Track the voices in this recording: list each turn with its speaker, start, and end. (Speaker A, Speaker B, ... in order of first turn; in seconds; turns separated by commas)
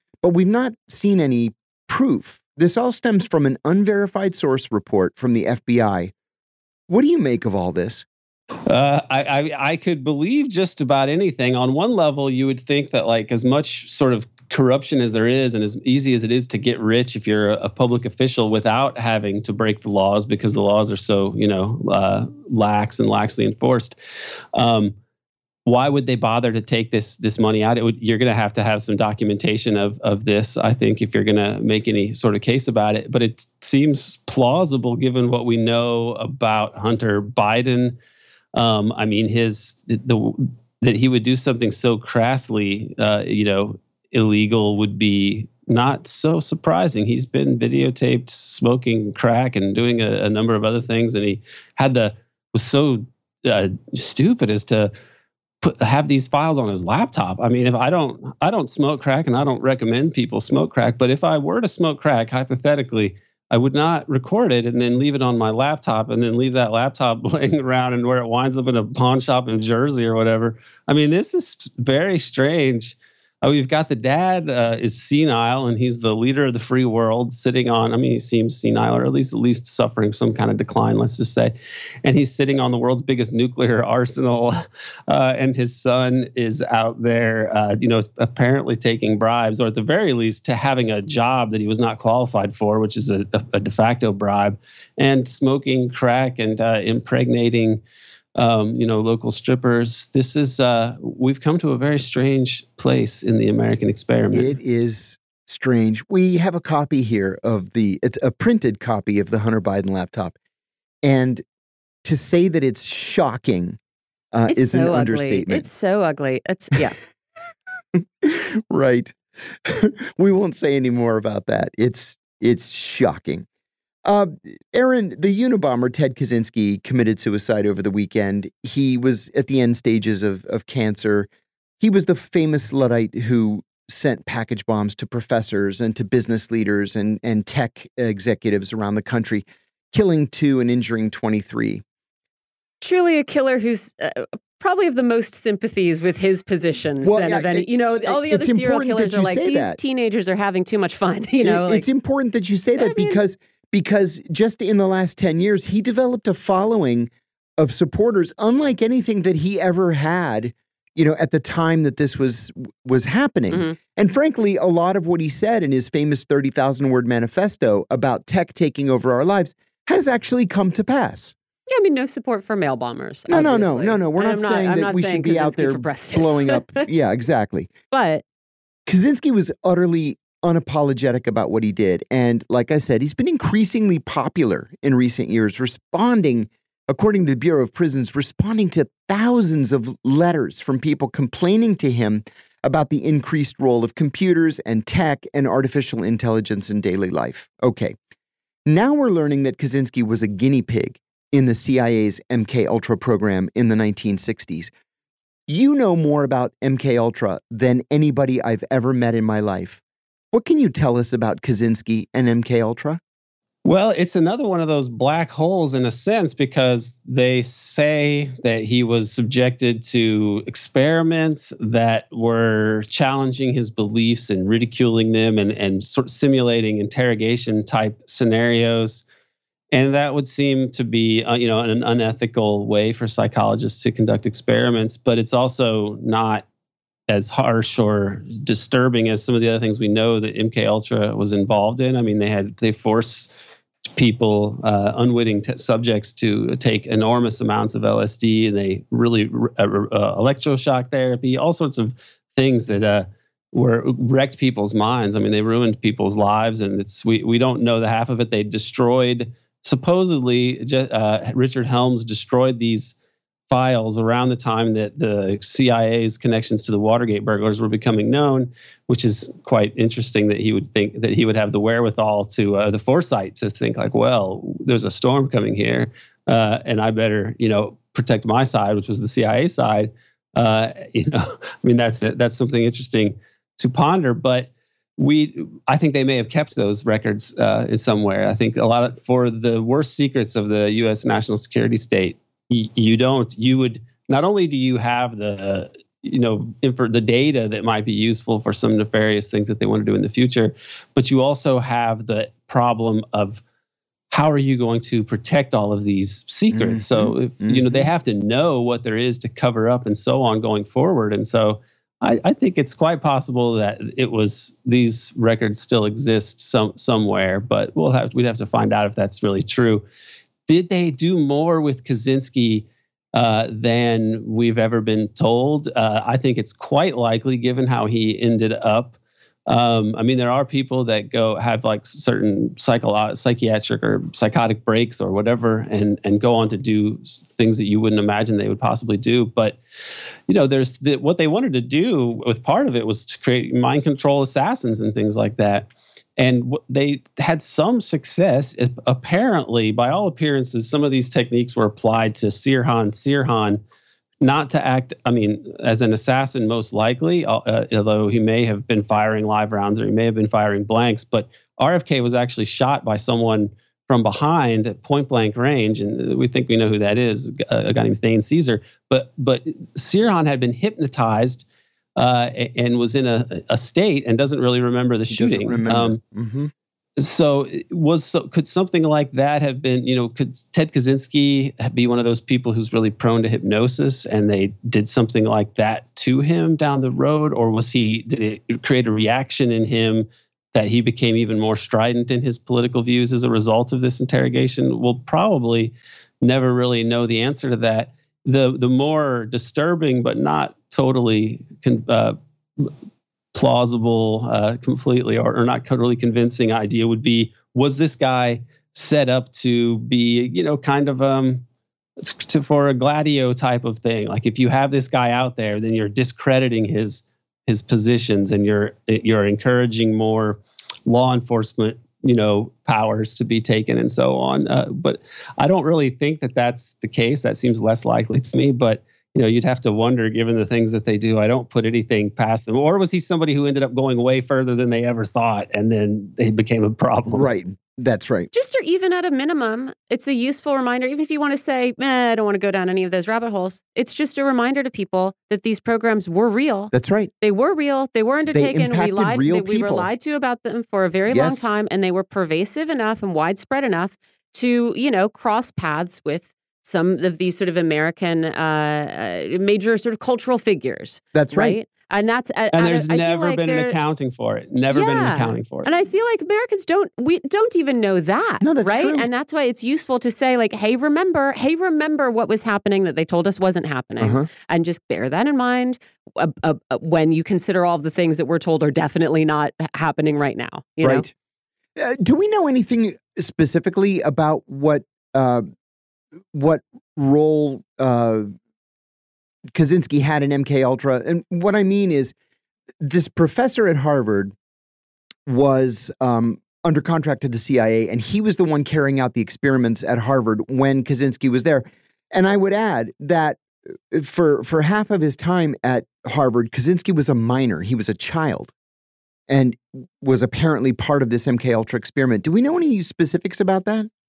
Speaker A: 0.2-6.1, Speaker A: 6.9-8.1, Speaker B: 8.7-24.0, Speaker B: 24.6-24.9, Speaker B: 25.7-38.0, Speaker B: 38.5-54.9, Speaker B: 55.6-84.5, Speaker B: 85.1-97.8, Speaker B: 98.4-104.5, Speaker A: 104.3-110.4, Speaker A: 111.0-111.4, Speaker A: 112.0-113.8, Speaker A: 114.3-115.7, Speaker C: 114.5-117.0, Speaker A: 118.0-123.5, Speaker A: 124.0-131.3, Speaker A: 131.8-141.8, Speaker C: 142.8-151.9, Speaker A: 147.0-149.8, Speaker A: 151.4-171.3, Speaker C: 152.8-153.2, Speaker C: 163.5-163.8, Speaker C: 171.7-176.9, Speaker A: 173.3-177.7, Speaker C: 177.9-178.2, Speaker A: 178.9-198.0, Speaker A: 198.7-204.7, Speaker A: 205.5-209.8, Speaker A: 210.3-213.0, Speaker B: 213.7-229.0, Speaker B: 229.7-236.4, Speaker B: 237.1-243.3, Speaker B: 244.0-262.9, Speaker B: 263.5-303.4, Speaker B: 304.1-319.9, Speaker A: 306.5-307.9, Speaker B: 320.5-329.0, Speaker B: 329.5-339.6, Speaker B: 340.3-353.6, Speaker B: 354.2-371.4, Speaker B: 372.0-376.0, Speaker A: 375.1-376.5, Speaker B: 377.0-402.7, Speaker B: 403.3-411.4, Speaker B: 412.0-437.3, Speaker A: 437.1-438.3, Speaker C: 438.3-463.8, Speaker A: 446.7-447.1, Speaker A: 448.3-449.9, Speaker A: 451.1-451.4, Speaker A: 461.1-461.6, Speaker B: 462.5-465.7, Speaker C: 464.7-481.1, Speaker A: 468.4-469.1, Speaker A: 474.0-474.3, Speaker A: 480.8-481.1, Speaker A: 481.8-485.5, Speaker A: 486.3-488.3, Speaker A: 489.5-492.1, Speaker A: 492.8-494.4, Speaker A: 495.3-508.5, Speaker A: 509.3-513.9